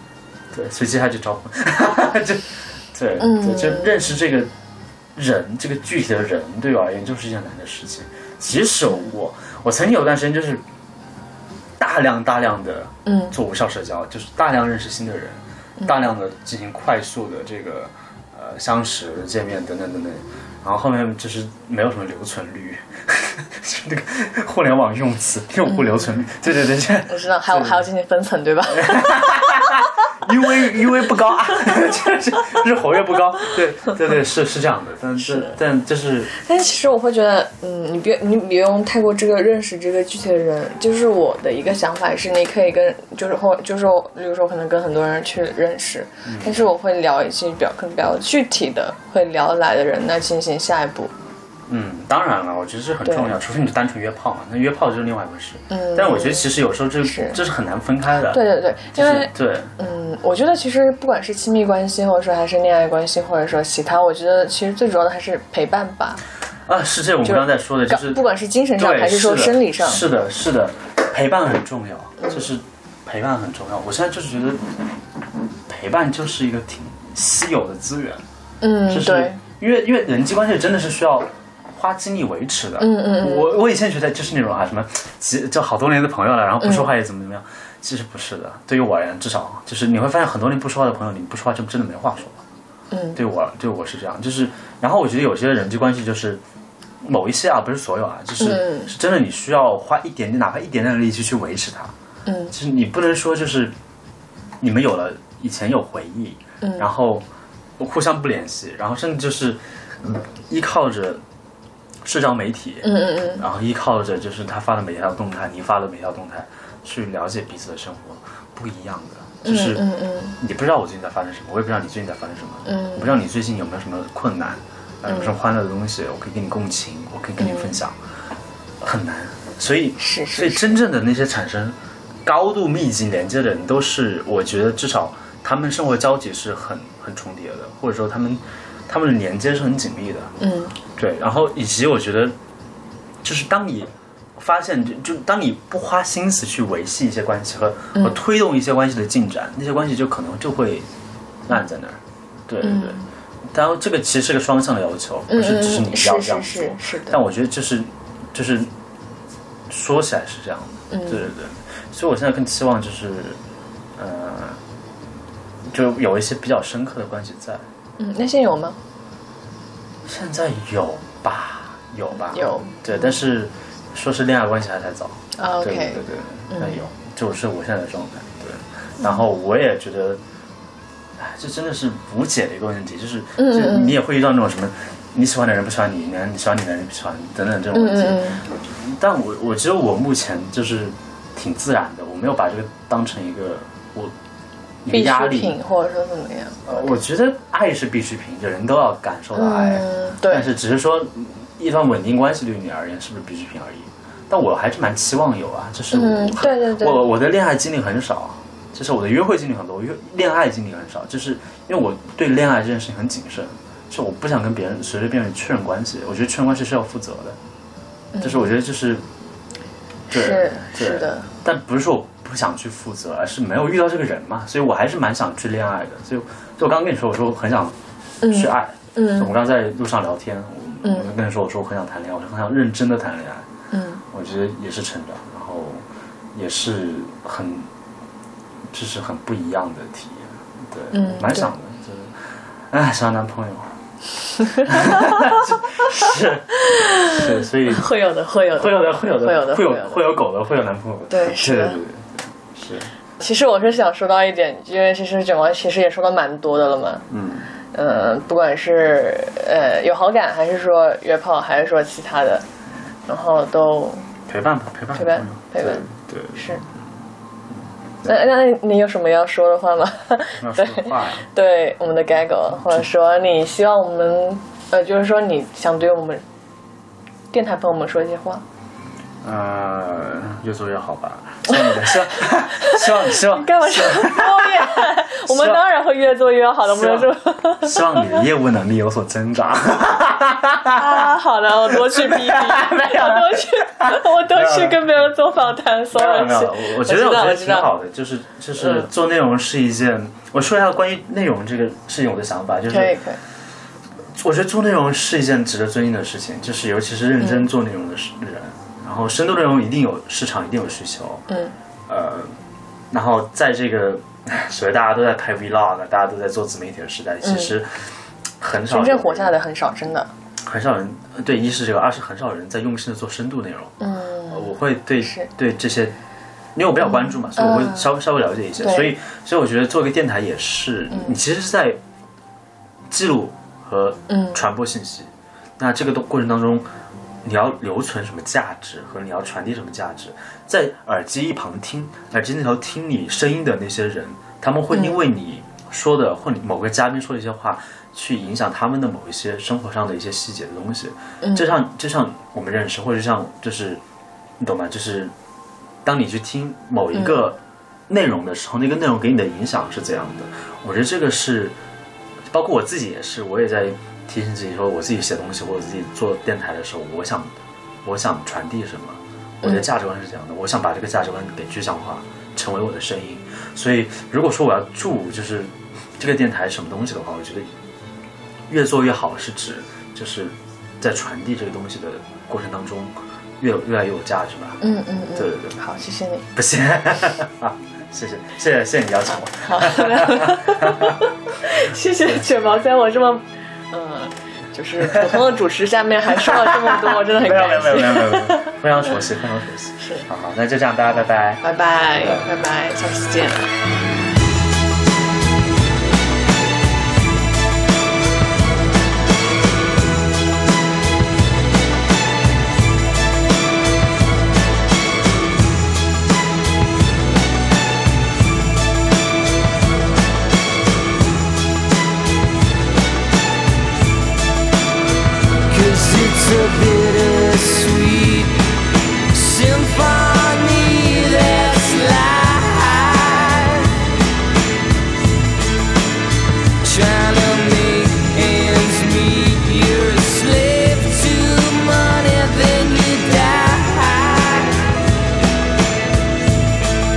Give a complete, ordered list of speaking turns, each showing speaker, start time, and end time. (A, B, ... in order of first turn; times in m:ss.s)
0:00.5-0:04.5 A
0:03.2-0:03.9 B
0:05.2-0:10.6 A
0:11.8-0:27.9 A
0:13.1-0:13.3 B
0:27.1-0:29.8 B
0:28.7-0:36.3 A
0:36.3-0:51.1 B
0:46.3-0:46.6 A
0:51.7-0:58.4 A
0:55.7-0:57.4 B
0:58.3-1:06.2 B
0:58.9-0:59.7 A
1:06.7-1:08.2 A
1:07.2-1:10.0 B
1:08.8-1:14.6 A
1:15.7-1:18.2 A
1:18.6-1:19.4 B
1:18.9-1:32.4 A
1:22.8-1:23.5 B
1:26.6-1:26.9 B
1:32.9-1:33.2 B
1:33.2-1:36.4 A
1:37.0-1:41.9 A
1:38.4-1:38.9 B
1:42.3-1:42.5 B
1:42.5-1:43.7 A
1:44.6-1:47.3 A
1:46.6-1:46.9 B
1:47.8-1:51.2 A
1:52.0-1:59.9 A
1:52.8-1:53.4 B
1:59.4-2:00.4 B
2:00.4-2:08.0 A
2:02.7-2:03.1 B
2:05.1-2:05.3 B
2:07.4-2:07.8 B
2:08.8-2:20.3 A
2:10.0-2:10.8 B
2:20.4-2:20.8 B
2:21.0-2:22.4 A
2:23.2-2:30.9 A
2:28.0-2:28.2 B
2:31.5-2:38.7 A
2:32.6-2:33.1 B
2:35.3-2:37.2 B
2:39.7-2:43.4 A
2:40.9-2:41.3 B
2:44.0-2:44.6 A
2:45.7-2:47.7 A
2:48.0-2:48.8 B
2:50.0-3:00.2 A
2:52.3-2:53.1 B
2:55.4-2:56.8 B
3:01.2-3:14.1 A
3:03.4-3:04.0 B
3:07.8-3:08.4 B
3:14.8-3:15.6 A
3:14.9-3:17.0 B
3:16.7-3:37.4 A
3:19.4-3:20.5 B
3:25.9-3:27.1 B
3:38.1-3:38.5 B
3:38.2-3:39.0 A
3:40.1-3:41.3 B
3:40.1-3:53.5 A
3:48.2-3:49.3 B
3:50.8-3:51.1 B
3:53.7-3:54.0 B
3:54.1-3:57.7 A
3:58.7-4:03.8 A
4:00.9-4:01.5 B
4:04.4-4:07.9 A
4:06.7-4:10.0 B
4:08.5-4:12.9 A
4:11.1-4:11.8 B
4:13.2-4:17.1 B
4:17.1-4:17.5 A
4:17.7-4:22.5 B
4:23.1-4:24.1 B
4:24.3-4:26.4 A
4:24.9-4:26.6 B
4:28.0-4:36.2 B
4:30.4-4:31.3 A
4:37.3-4:38.4 B
4:39.2-4:45.6 A
4:41.5-4:48.2 B
4:46.7-4:54.9 A
4:50.7-4:57.7 B
4:55.9-5:03.0 A
4:58.6-4:58.9 B
5:02.7-5:03.2 B
5:04.2-5:11.2 A
5:07.2-5:07.5 B
5:11.3-5:11.6 B
5:11.9-5:12.4 A
5:12.9-5:19.3 A
5:17.2-5:17.6 B
5:18.7-5:20.1 B
5:20.4-5:23.8 A
5:23.8-5:24.5 B
5:24.3-5:26.0 A
5:25.0-5:25.3 B
5:26.6-5:31.8 A
5:27.0-5:27.9 B
5:28.6-5:29.0 B
5:32.9-5:36.7 A
5:34.1-5:34.4 B
5:37.2-5:53.8 A
5:44.7-5:45.0 B
5:51.2-5:51.6 B
5:54.4-5:55.1 A
5:55.8-6:01.6 A
5:56.9-5:57.2 B
6:02.3-6:17.5 A
6:09.4-6:09.7 B
6:18.5-6:24.6 A
6:24.6-6:26.3 B
6:25.2-6:25.6 A
6:26.3-6:31.0 A
6:29.5-6:38.6 B
6:36.2-6:41.4 A
6:39.8-6:40.0 B
6:41.4-6:43.5 B
6:42.0-6:42.3 A
7:05.5-7:08.5 C
7:09.1-7:13.9 C
7:16.6-7:24.8 C